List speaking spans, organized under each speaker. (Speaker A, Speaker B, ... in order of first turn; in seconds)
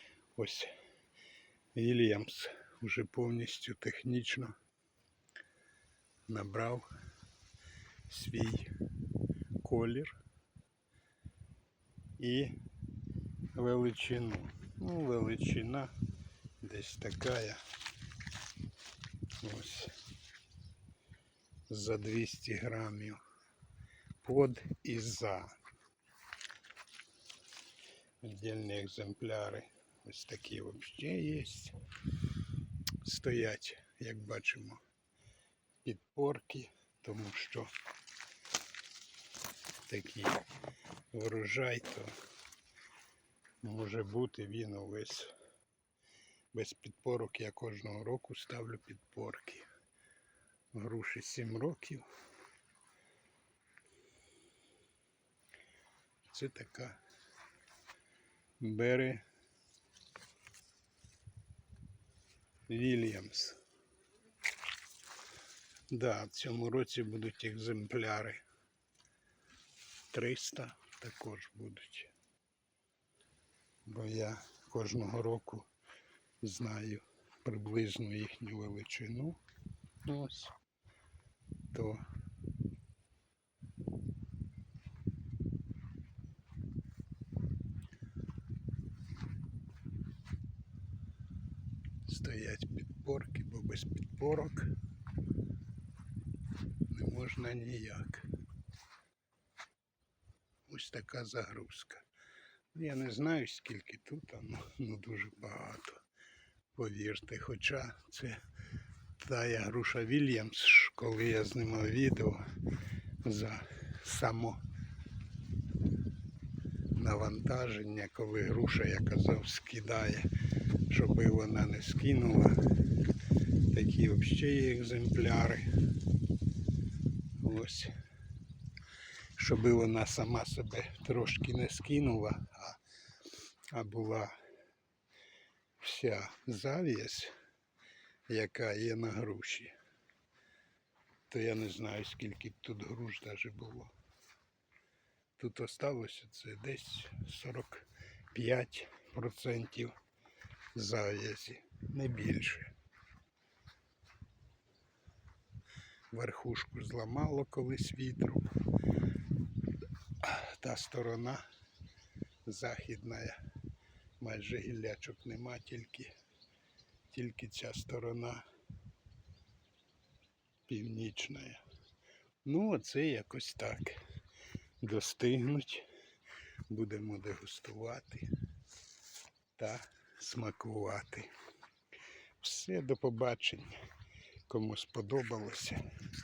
Speaker A: 0.3-0.7, 1.7-4.5, 6.3-6.9, 8.1-8.7, 9.6-10.2, 12.2-12.6, 13.5-15.9, 16.6-17.6, 19.4-20.0, 21.7-23.2, 24.2-25.6, 28.2-31.7, 33.0-34.8, 35.8-37.7, 39.9-40.4, 41.1-42.1, 43.6-45.3, 46.5-49.7, 50.7-52.1, 56.2-57.0, 58.6-59.2, 62.7-63.6, 65.9-68.4, 70.1-72.1, 73.8-75.7, 76.4-79.4, 80.0-80.5, 81.7-82.0, 92.0-94.8, 96.9-98.3, 100.7-102.0, 102.7-106.0, 106.7-108.4, 109.2-112.4, 113.2-114.6, 117.0-120.3, 120.9-122.7, 123.7-125.7, 127.4-127.9, 129.4-132.8, 133.7-134.3, 135.8-137.3, 138.3-139.7, 141.3-143.9, 145.4-149.9, 150.7-152.7, 156.1-158.5, 160.2-161.4, 162.4-163.4, 164.2-166.1, 167.1-168.4, 170.7-171.6, 172.4-174.0, 174.8-175.8, 176.7-178.3, 179.6-181.3, 182.4-183.8, 184.5-185.8